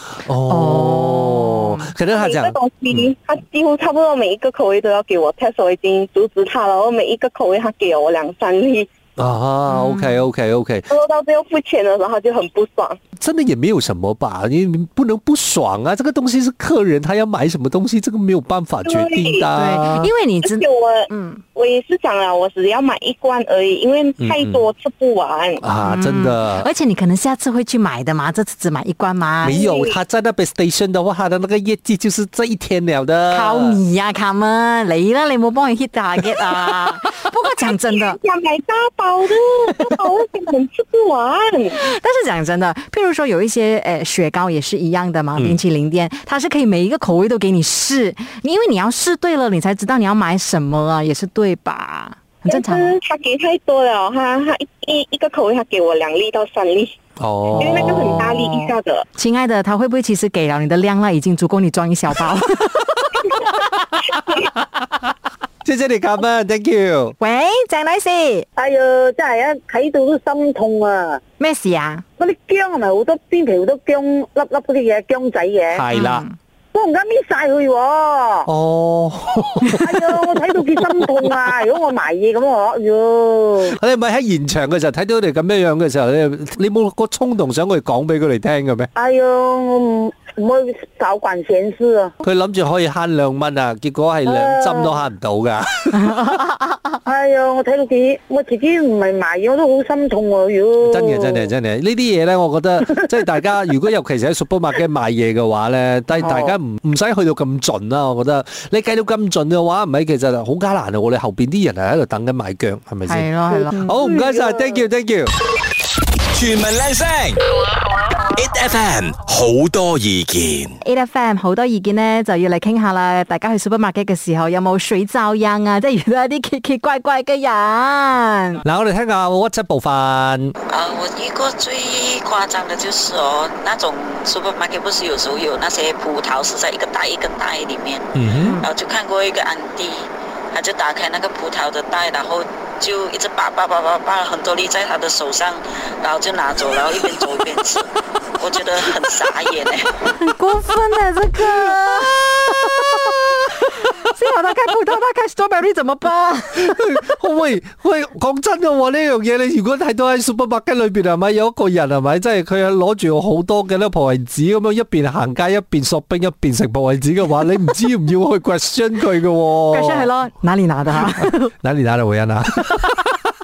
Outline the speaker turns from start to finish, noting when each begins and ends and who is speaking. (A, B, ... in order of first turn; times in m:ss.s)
0:00.2-0:03.1 A
0:00.5-0:01.9 B
0:02.1-0:08.9 C
0:09.2-0:10.9 A
0:09.7-0:10.2 B
0:10.9-0:13.0 C
0:13.2-0:20.1 A
0:18.8-0:19.5 C
0:19.6-0:21.4 B
0:20.4-0:25.6 C
0:24.2-0:24.6 A
0:25.6-0:26.7 A
0:25.8-0:29.6 B
0:29.4-0:33.8 A
0:29.5-0:30.0 C
0:33.3-0:38.2 B
0:37.6-0:41.8 C
0:41.7-0:52.9 B
0:52.5-0:56.9 C
0:57.2-0:58.2 A
0:57.6-0:59.0 C
0:57.6-1:03.6 B
1:05.6-1:07.2 A
1:07.2-1:08.5 B
1:08.6-1:11.2 D
1:11.4-1:12.0 B
1:12.2-1:15.8 D
1:15.7-1:16.3 A
1:15.9-1:16.4 B
1:16.7-1:18.5 D
1:18.5-1:19.9 A
1:19.8-1:23.8 D
1:23.7-1:28.9 A
1:29.0-1:32.1 D
1:32.2-1:36.0 A
1:34.3-1:34.8 D
1:36.1-1:36.8 B
1:37.0-1:41.4 D
1:40.8-1:55.3 A
1:46.2-1:46.5 B
1:53.1-1:53.8 B
1:54.2-1:54.7 D
1:56.3-1:57.4 E
1:58.4-2:00.8 E
2:00.8-2:08.6 B
2:08.6-2:10.6 A
2:10.7-2:29.9 F
2:18.2-2:18.6 A
2:30.1-2:36.8 B
2:31.4-2:32.7 A
2:36.5-2:50.1 A
2:49.7-2:51.5 B
2:51.1-2:53.2 A